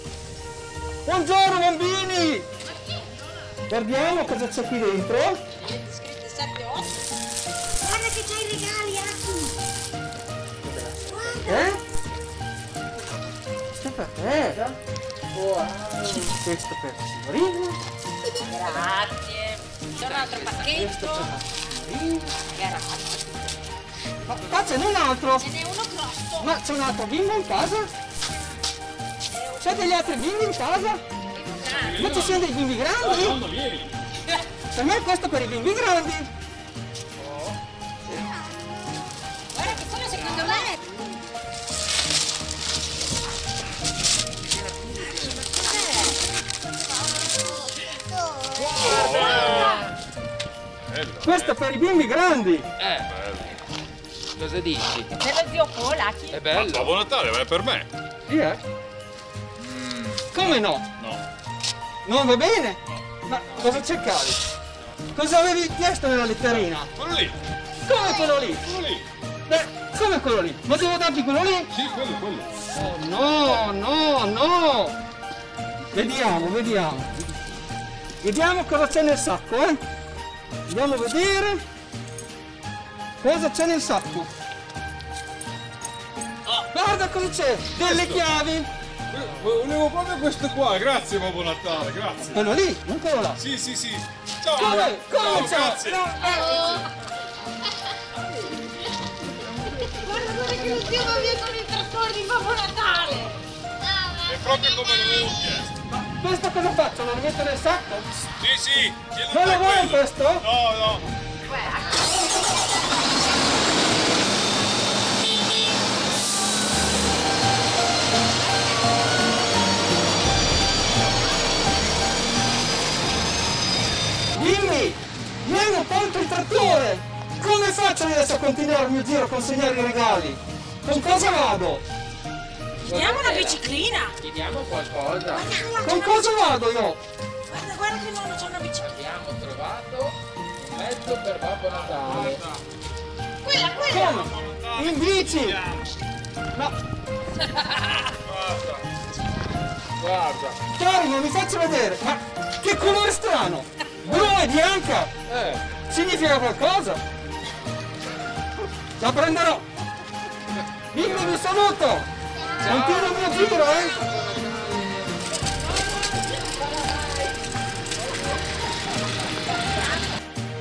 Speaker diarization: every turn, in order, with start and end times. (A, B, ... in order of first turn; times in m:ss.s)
0:01.0-0:02.5 A
0:03.7-0:05.4 A
0:05.5-0:07.0 B
0:07.8-0:09.5 B
0:10.7-0:11.0 C
0:11.0-0:11.7 B
0:11.4-0:11.8 A
0:13.8-0:14.6 A
0:15.3-0:16.4 C
0:16.3-0:17.8 A
0:18.4-0:21.4 B
0:20.0-0:20.3 C
0:20.7-0:22.3 A
0:22.4-0:23.4 B
0:24.2-0:25.5 A
0:25.4-0:26.5 B
0:26.4-0:27.9 A
0:29.3-0:29.6 B
0:29.6-0:31.0 A
0:31.3-0:32.0 B
0:31.6-0:34.0 D
0:32.0-0:33.4 A
0:34.7-0:36.3 A
0:39.5-0:40.9 B
0:45.2-0:46.1 B
0:48.6-0:49.8 D
0:48.8-0:49.9 B
0:50.9-0:51.6 D
0:51.2-0:52.7 A
0:52.8-0:53.1 C
0:53.1-0:53.5 D
0:54.4-0:55.1 C
0:55.2-0:56.4 B
0:56.3-0:57.0 C
0:56.5-0:57.9 D
0:58.3-0:58.6 A
0:59.6-1:00.2 D
1:00.3-1:00.8 A
1:02.0-1:04.4 A
1:05.1-1:06.9 A
1:06.5-1:07.4 D
1:07.8-1:08.7 A
1:08.5-1:09.0 D
1:09.5-1:11.7 A
1:11.7-1:12.5 D
1:12.7-1:15.0 A
1:15.9-1:17.2 A
1:18.2-1:19.8 A
1:20.7-1:21.6 A
1:23.2-1:24.3 A
1:26.7-1:28.7 A
1:27.8-1:28.2 D
1:29.1-1:32.4 D
1:32.3-1:33.4 A
1:33.4-1:36.4 D
1:34.5-1:36.8 A
1:36.2-1:36.9 B
1:39.7-1:43.4 B
1:43.9-1:44.8 B
1:44.2-1:45.8 D
1:46.0-1:48.1 A
1:48.4-1:51.0 D
1:49.3-1:50.5 A
1:51.5-1:52.0 B
2:04.3-2:11.8 A
2:10.9-2:11.5 B
2:12.8-2:13.6 C
2:12.8-2:14.1 B
2:14.2-2:15.5 C
2:15.3-2:16.5 B
2:15.8-2:17.0 A
2:17.5-2:18.9 B
2:18.8-2:22.4 C
2:23.4-2:24.2 B
2:23.8-2:25.6 A
2:24.2-2:25.9 D
2:28.3-2:28.8 D
2:30.0-2:30.6 C
2:30.7-2:35.2 A
2:35.3-2:35.6 C
2:35.8-2:37.0 A
2:39.0-2:39.7 A
2:40.9-2:44.0 A
2:42.4-2:44.0 B
2:44.1-2:44.7 C